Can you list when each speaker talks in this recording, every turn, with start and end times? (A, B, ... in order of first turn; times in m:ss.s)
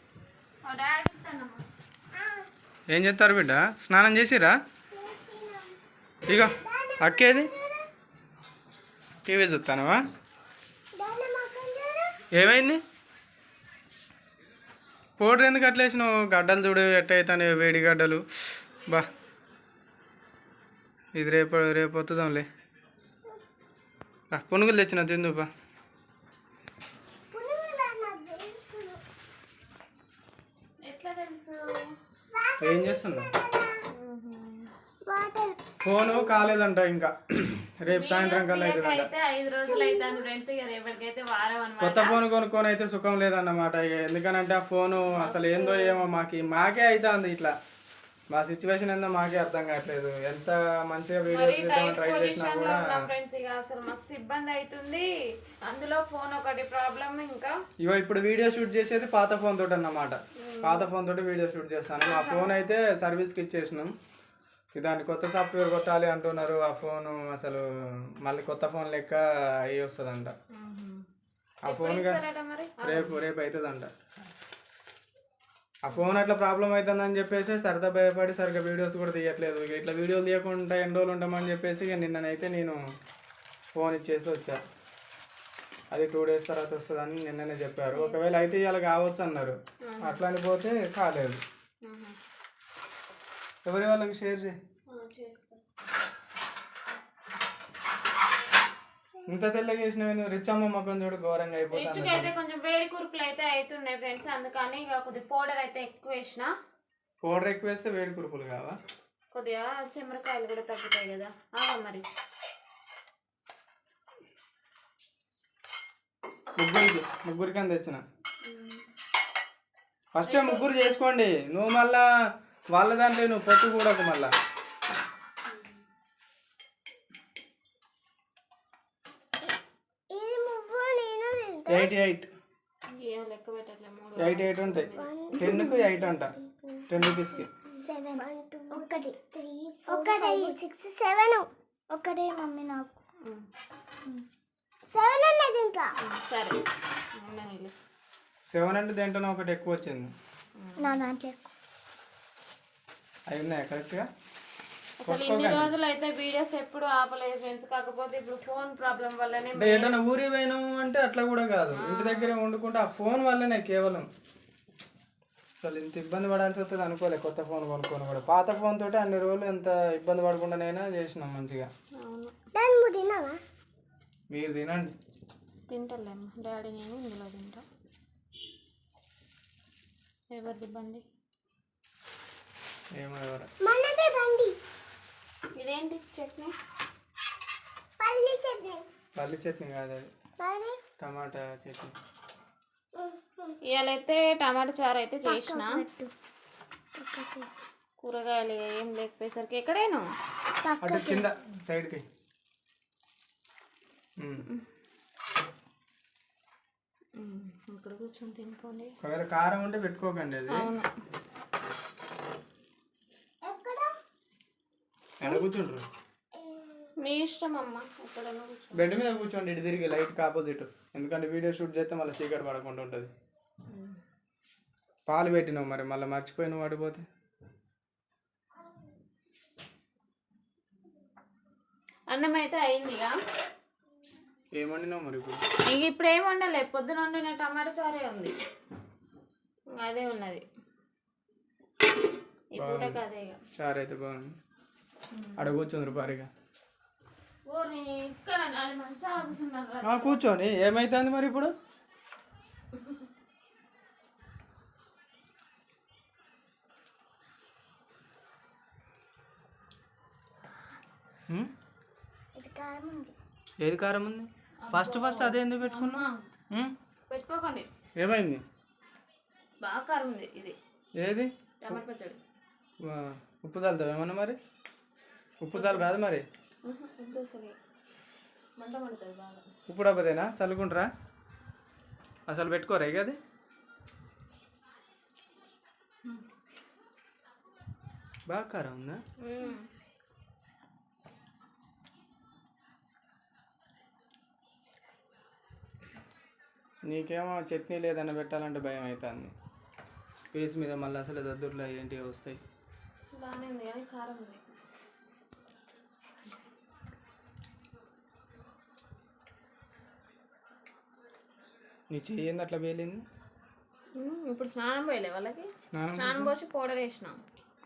0:00.6-0:01.6 A
0:02.1-0:02.5 B
0:02.9-0:04.6 C
0:04.9-0:05.8 B
0:06.3-0:07.5 C
0:06.3-0:07.9 B
0:09.2-0:10.0 C
0:11.0-0:12.1 B
0:12.3-0:12.8 C
0:15.2-0:19.1 C
0:21.1-0:22.4 C
0:24.3-0:25.5 C
0:27.3-0:29.0 B
0:30.8-0:31.9 A
0:32.3-0:33.8 B
0:32.6-0:33.3 C
0:33.9-0:34.7 A
0:35.0-0:36.4 B
0:35.8-0:39.1 C
0:37.9-0:42.2 A
0:39.6-0:40.2 B
0:41.8-0:47.5 C
0:45.1-0:46.0 A
0:48.3-0:52.9 C
0:51.2-0:55.1 A
0:55.6-0:57.5 A
0:57.8-1:03.9 C
1:00.4-1:00.9 A
1:02.0-1:02.6 A
1:04.7-1:07.7 C
1:08.2-1:10.3 C
1:10.5-1:11.0 A
1:11.6-1:12.2 C
1:11.6-1:13.2 A
1:12.8-1:13.9 C
1:15.8-1:22.8 C
1:23.7-1:24.6 C
1:25.9-1:31.4 C
1:27.9-1:28.2 A
1:29.8-1:30.2 A
1:31.8-1:32.2 A
1:33.6-1:34.6 C
1:34.9-1:35.6 A
1:39.3-1:42.3 C
1:41.7-1:46.5 A
1:47.2-1:48.8 C
1:49.3-1:52.0 A
1:56.6-1:58.0 C
1:58.4-1:58.8 A
2:00.2-2:02.0 C
2:00.2-2:00.6 A
2:02.7-2:04.3 C
2:05.5-2:05.8 A
2:10.1-2:11.9 B
2:11.7-2:12.3 C
2:12.9-2:15.9 A
2:14.2-2:16.3 C
2:14.9-2:16.9 B
2:16.9-2:17.5 C
2:17.7-2:23.0 B
2:19.9-2:20.5 A
2:24.9-2:25.9 B
2:26.0-2:26.6 A
2:27.2-2:27.7 A
2:28.5-2:30.1 C
2:30.6-2:31.0 A
2:30.8-2:31.5 B
2:33.3-2:34.0 C
2:35.0-2:40.0 A
2:35.0-2:35.7 C
2:39.6-2:44.1 C
2:41.7-2:42.3 A
2:45.6-2:51.7 C
2:52.0-2:52.3 A
2:52.5-2:53.4 B
2:54.3-2:54.9 C
2:55.7-2:57.6 A
3:00.3-3:01.0 A
3:02.9-3:03.5 C
3:03.6-3:04.5 B
3:05.6-3:06.5 A
3:08.0-3:08.8 B
3:09.2-3:10.0 C
3:10.4-3:10.8 B
3:11.0-3:11.9 C
3:13.0-3:13.6 B
3:13.7-3:15.7 A
3:15.2-3:16.1 B
3:17.0-3:17.5 B
3:18.0-3:20.0 A
3:20.6-3:21.3 B
3:20.8-3:22.0 C
3:24.2-3:24.5 C
3:27.2-3:28.9 A
3:29.0-3:30.7 C
3:30.5-3:30.9 A
3:33.4-3:34.0 B
3:35.2-3:35.8 C
3:36.4-3:36.9 B
3:37.0-3:38.9 A
3:38.7-3:43.1 C
3:43.7-3:44.0 A
3:45.1-3:47.0 C
3:52.1-3:53.1 A
3:54.6-3:55.4 C
3:55.6-3:58.3 A
3:59.7-4:00.4 A
4:02.5-4:03.4 A
4:02.6-4:03.0 C
4:03.6-4:04.3 C
4:05.1-4:05.6 A
4:05.4-4:06.3 C
4:07.5-4:10.2 A
4:09.8-4:11.5 C
4:22.3-4:23.1 B
4:23.6-4:26.7 C
4:24.6-4:26.2 A
4:27.1-4:27.7 A
4:28.0-4:28.4 C
4:29.6-4:30.6 A
4:31.0-4:31.8 C
4:31.6-4:32.2 A
4:32.8-4:34.4 C
4:35.4-4:36.2 C
4:35.5-4:35.9 A
4:36.6-4:37.6 A
4:38.6-4:39.4 A
4:39.7-4:40.9 C
4:42.3-4:43.2 C
4:48.3-4:49.0 C
4:49.2-4:49.6 A
4:56.9-4:59.3 C
5:00.3-5:02.4 C
5:03.2-5:04.5 A
5:11.9-5:13.0 C
5:14.0-5:17.2 A
5:15.7-5:16.3 C